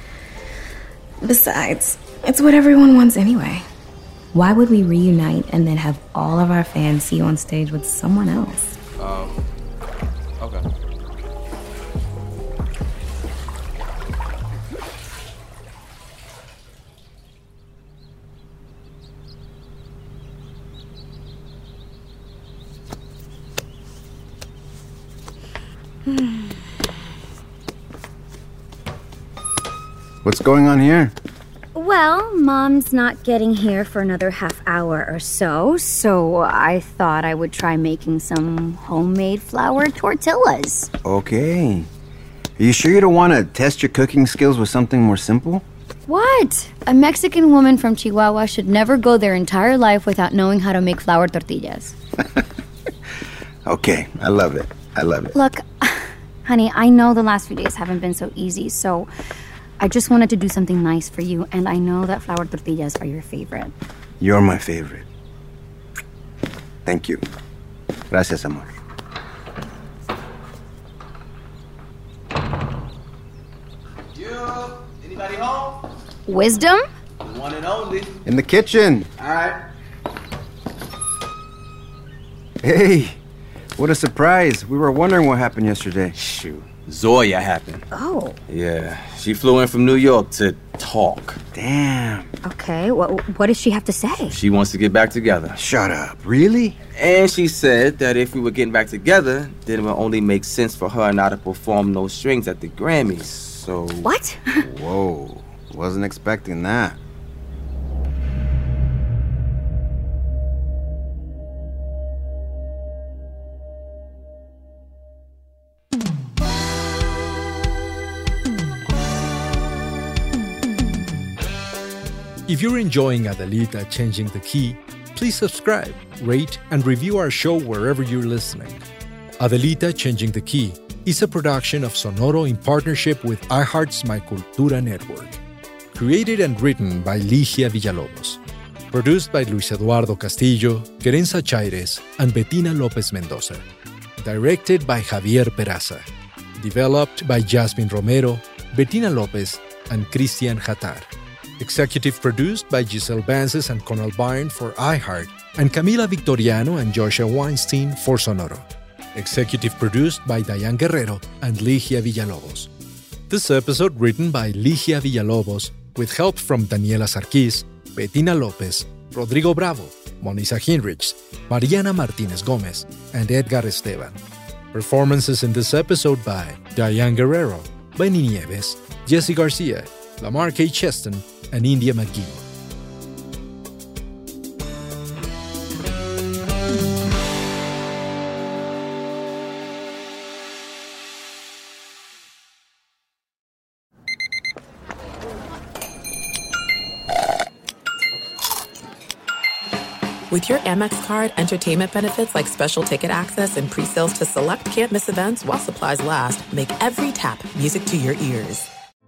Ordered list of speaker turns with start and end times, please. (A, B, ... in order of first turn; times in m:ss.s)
0:01.2-0:03.6 A
0:04.3-0:08.8 A
0:09.0-0:09.4 B
0:30.2-0:31.1 C
0:31.8-0:40.9 D
0:41.0-0:41.9 C
0:42.6-0:45.6 C
0:46.1-0:52.0 D
0:53.7-0:55.3 C
0:55.3-0:59.1 D
0:59.8-1:03.7 D
1:04.2-1:05.1 C
1:06.9-1:07.2 C
1:08.1-1:08.7 C
1:14.1-1:15.9 B
1:16.3-1:16.8 D
1:17.2-1:18.2 B
1:18.3-1:19.1 C
1:19.2-1:19.6 B
1:22.6-1:23.2 C
1:23.8-1:26.1 C
1:26.2-1:27.8 B
1:28.0-1:28.4 D
1:28.5-1:31.4 B
1:31.5-1:32.3 C
1:32.4-1:34.3 D
1:34.1-1:35.6 B
1:35.6-1:36.8 C
1:36.9-1:44.1 B
1:44.0-1:44.6 D
1:44.6-1:47.0 C
2:02.5-2:08.8 E
2:09.4-2:15.4 E
2:15.9-2:18.4 E
2:18.9-2:23.6 E
2:24.2-2:26.0 E
2:26.6-2:31.1 E
2:31.6-2:42.7 E
2:43.3-2:54.2 E
2:54.7-3:02.4 E
3:20.3-3:28.7 F